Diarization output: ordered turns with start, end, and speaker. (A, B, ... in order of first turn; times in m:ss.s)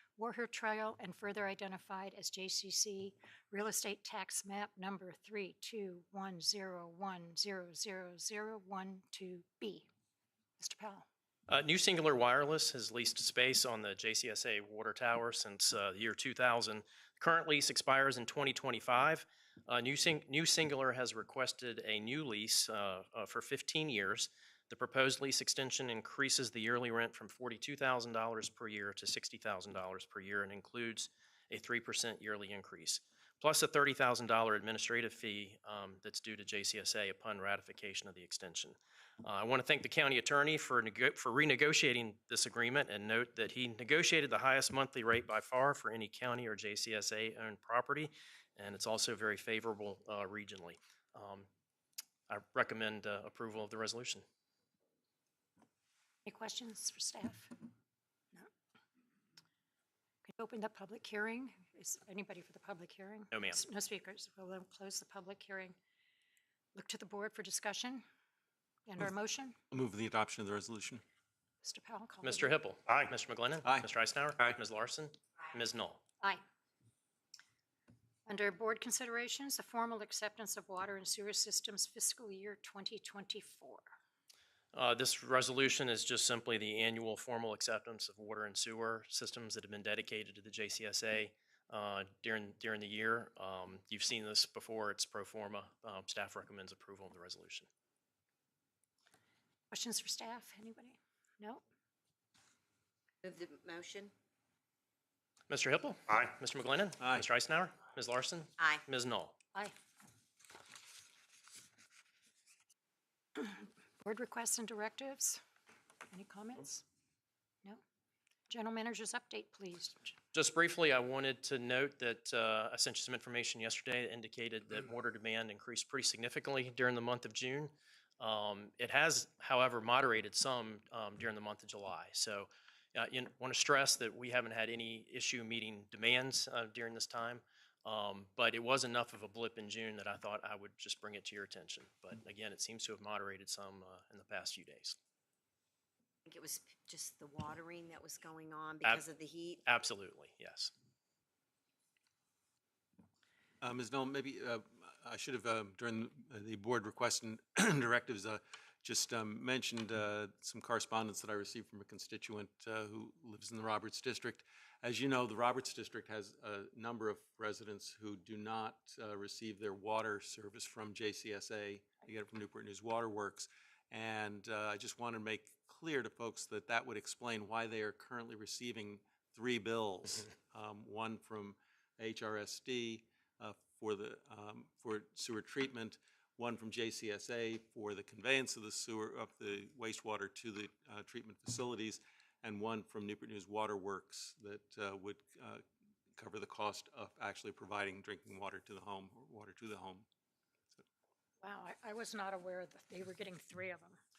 0:00.2-0:09.9 A
0:10.6-0:11.1 A
0:11.5-0:51.5 B
0:52.3-0:54.2 B
0:56.2-0:57.5 A
1:00.2-1:05.8 A
1:03.3-1:03.6 B
1:06.7-1:08.0 A
1:08.9-1:09.6 A
1:09.7-1:11.0 C
1:11.6-1:12.6 A
1:12.2-1:16.0 B
1:18.3-1:23.8 A
1:24.7-1:37.7 B
1:39.7-1:41.6 A
1:43.2-1:44.1 D
1:45.5-1:49.4 B
1:53.4-1:55.4 A
1:56.1-1:56.8 A
1:58.5-2:00.1 A
2:00.3-2:25.0 B
2:26.3-2:29.6 D
2:29.6-2:30.7 B
2:33.6-3:15.6 C
3:16.2-3:20.1 C
3:21.4-3:24.0 A